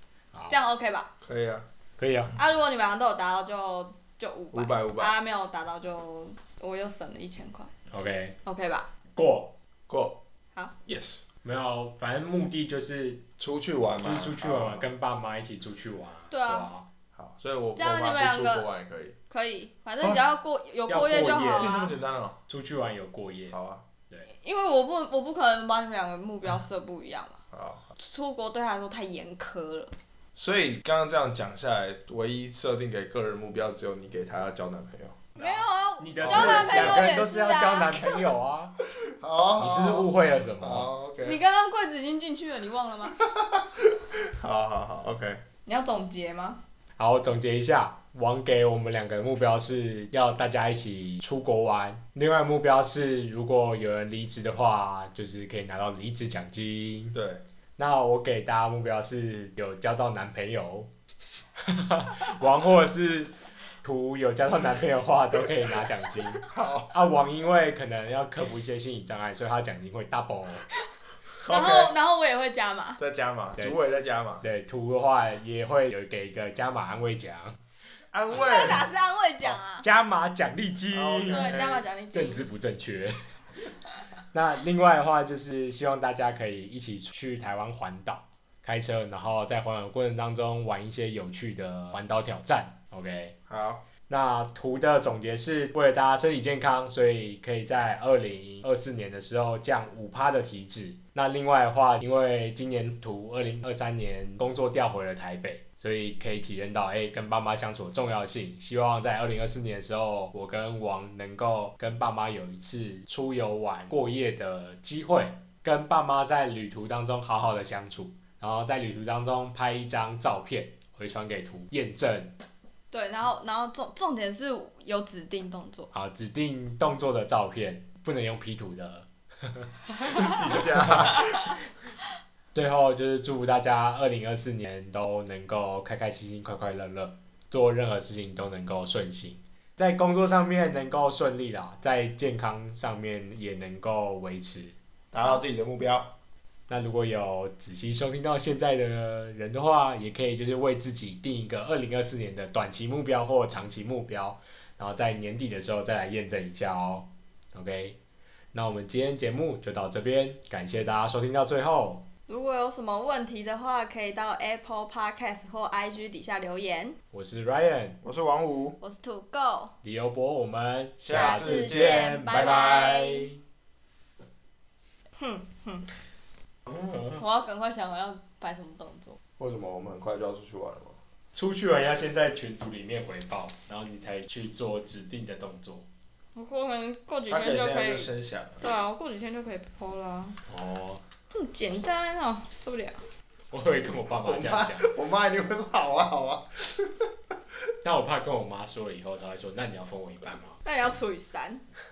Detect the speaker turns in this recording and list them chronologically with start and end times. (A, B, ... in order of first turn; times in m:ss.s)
0:00.3-0:00.6 A
0:00.5-0:01.1 B
0:01.2-0:01.6 C
0:02.0-0:02.3 A
0:02.4-0:07.7 B
0:04.5-0:05.1 C
0:07.9-0:08.4 A
0:08.4-0:08.9 B
0:09.2-0:09.5 A
0:09.9-0:10.2 C
0:10.9-0:11.2 C
0:11.4-0:13.2 A
0:13.4-0:14.8 C
0:14.0-0:16.9 A
0:16.3-0:16.7 B
0:17.2-0:19.2 C
0:17.8-0:18.7 B
0:19.3-0:21.9 B
0:20.9-0:21.7 A
0:21.5-0:22.4 C
0:22.5-0:23.6 A
0:23.5-0:23.8 C
0:24.2-0:27.4 B
0:27.5-0:27.9 C
0:28.0-0:29.9 B
0:30.4-0:35.2 C
0:35.4-0:38.7 A
0:35.4-0:38.2 B
0:36.2-0:37.1 C
0:39.2-0:41.4 C
0:39.6-0:40.9 A
0:41.2-0:43.2 B
0:43.2-0:45.4 C
0:45.6-0:46.6 B
0:47.0-0:57.2 A
0:57.1-0:57.4 C
0:57.8-1:00.9 A
1:01.6-1:10.6 A
1:06.4-1:06.9 C
1:11.4-1:11.9 C
1:11.5-1:13.0 B
1:13.0-1:14.4 C
1:14.4-1:17.6 A
1:18.1-1:18.9 C
1:18.3-1:19.8 B
1:19.4-1:21.6 A
1:20.9-1:21.8 C
1:21.3-1:22.4 B
1:22.1-1:23.2 A
1:24.3-1:33.3 A
1:33.5-1:33.8 C
1:34.1-2:02.3 A
2:02.9-2:05.9 B
2:05.9-2:11.1 A
2:10.0-2:11.5 C
2:12.5-2:24.7 A
2:25.1-2:26.1 C
2:26.7-2:38.0 A
2:38.5-2:42.0 A
2:42.3-2:47.0 B
2:47.1-2:48.0 A
2:48.0-2:48.8 C
2:48.8-2:49.8 B
2:49.8-2:53.4 A
2:51.0-2:52.1 C
2:51.1-2:53.3 B
2:55.2-2:55.9 B
2:56.7-2:57.2 A
2:57.2-2:59.2 B
2:59.4-3:01.0 C
3:01.3-3:05.9 A
3:06.3-3:10.4 B
3:07.3-3:08.6 C
3:10.5-3:11.0 A
3:11.3-3:13.0 B
3:13.5-3:14.9 A
3:14.2-3:17.0 C
3:17.8-3:20.6 A
3:20.6-3:21.6 B